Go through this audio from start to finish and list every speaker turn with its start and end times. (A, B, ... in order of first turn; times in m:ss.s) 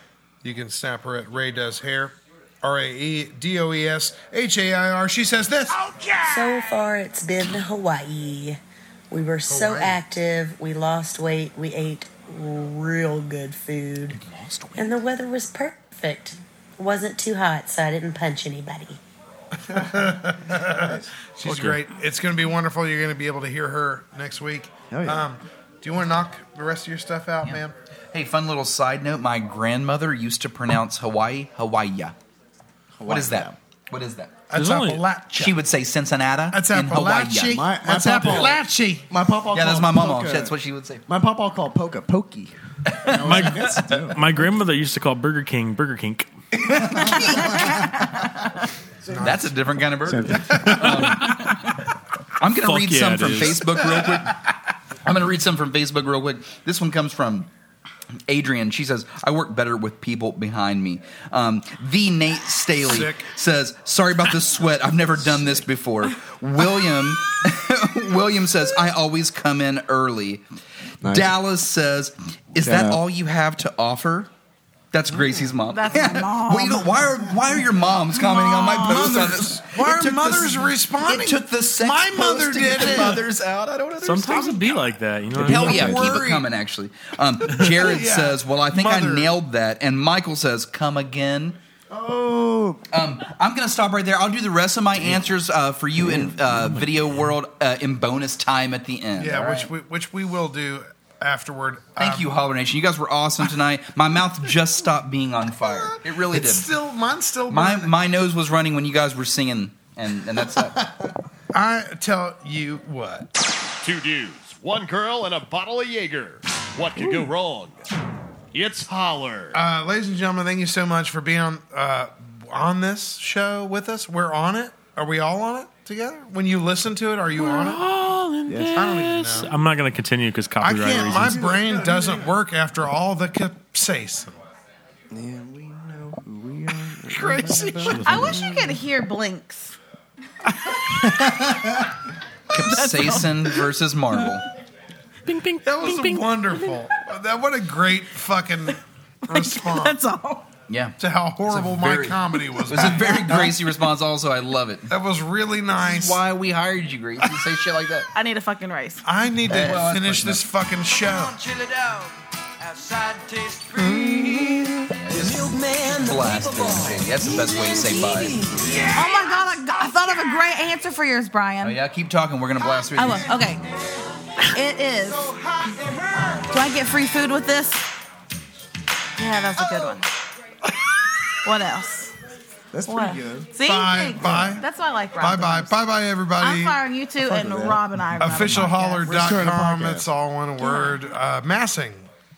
0:00.4-0:05.9 A
0:06.2-0:08.6 B
0:09.1-0:14.2 B
0:09.5-0:10.0 A
0:14.3-0:14.9 C
0:14.8-0:19.0 B
0:19.7-0:27.7 A
0:20.7-0:21.0 C
0:21.4-0:21.8 D
0:24.9-0:25.2 C
0:28.1-0:32.1 E
0:33.0-0:33.5 C
0:33.0-0:34.4 E
0:34.5-0:35.6 A
0:34.5-0:35.0 D
0:35.4-0:37.6 E
0:36.5-0:39.1 A
0:37.5-0:40.5 C
0:39.5-0:41.0 E
0:41.1-0:42.5 C
0:42.9-0:44.0 E
0:43.1-0:44.5 C
0:43.2-0:46.3 D
0:46.7-0:47.6 E
0:49.0-0:49.5 A
0:49.2-0:51.6 E
0:50.0-0:51.0 C
0:50.8-0:51.1 D
0:52.4-0:54.4 E
0:52.6-0:53.6 D
0:55.0-0:57.5 E
0:58.3-1:10.4 E
1:02.8-1:03.3 A
1:11.0-1:11.3 C
1:11.1-1:14.3 E
1:12.6-1:13.0 C
1:14.9-1:24.8 E
1:15.7-1:17.0 F
1:18.1-1:19.3 F
1:18.8-1:23.2 A
1:24.0-1:25.9 D
1:25.4-1:26.2 C
1:25.4-1:31.6 E
1:25.5-1:26.4 A
1:27.5-1:29.3 A
1:31.9-1:32.8 C
1:32.9-1:39.7 E
1:36.0-1:37.0 C
1:39.2-1:42.3 A
1:42.0-1:46.7 E
1:45.8-1:47.9 A
1:47.5-1:50.8 E
1:51.5-1:53.3 A
1:53.8-1:57.8 G
1:58.5-1:59.6 G
1:59.5-2:07.8 A
2:07.3-2:11.5 D
2:08.5-2:09.0 C
2:08.7-2:09.5 A
2:10.6-2:14.4 A
2:10.9-2:12.4 C
2:15.1-2:18.8 C
2:17.1-2:18.4 A
2:17.9-2:18.3 D
2:18.0-2:19.7 F
2:21.0-2:21.7 C
2:22.5-2:24.4 E
2:22.7-2:23.3 F
2:25.3-2:26.5 D
2:25.6-2:30.0 A
2:29.3-2:30.4 F
2:30.7-2:31.0 E
2:31.0-2:33.3 A
2:31.5-2:34.9 E
2:33.3-2:33.6 C
2:34.9-2:36.2 A
2:35.8-2:38.1 E
2:38.1-2:39.0 F
2:39.0-2:41.4 A
2:39.5-2:40.4 E
2:41.2-2:44.5 H
2:44.2-2:44.9 A
2:44.9-2:48.5 E
2:45.1-2:49.3 H
2:48.9-2:51.8 F
2:51.6-2:53.3 E
2:53.0-2:53.6 F
2:54.5-2:55.3 F
2:56.5-2:57.9 F
2:59.2-3:00.1 F
3:01.4-3:02.1 F
3:02.7-3:03.5 C
3:02.9-3:05.8 F
3:03.6-3:04.6 A
3:04.1-3:04.6 C
3:05.2-3:06.8 A
3:06.4-3:09.2 F
3:07.2-3:07.8 C
3:08.2-3:12.1 A
3:09.0-3:10.1 C
3:10.6-3:11.0 F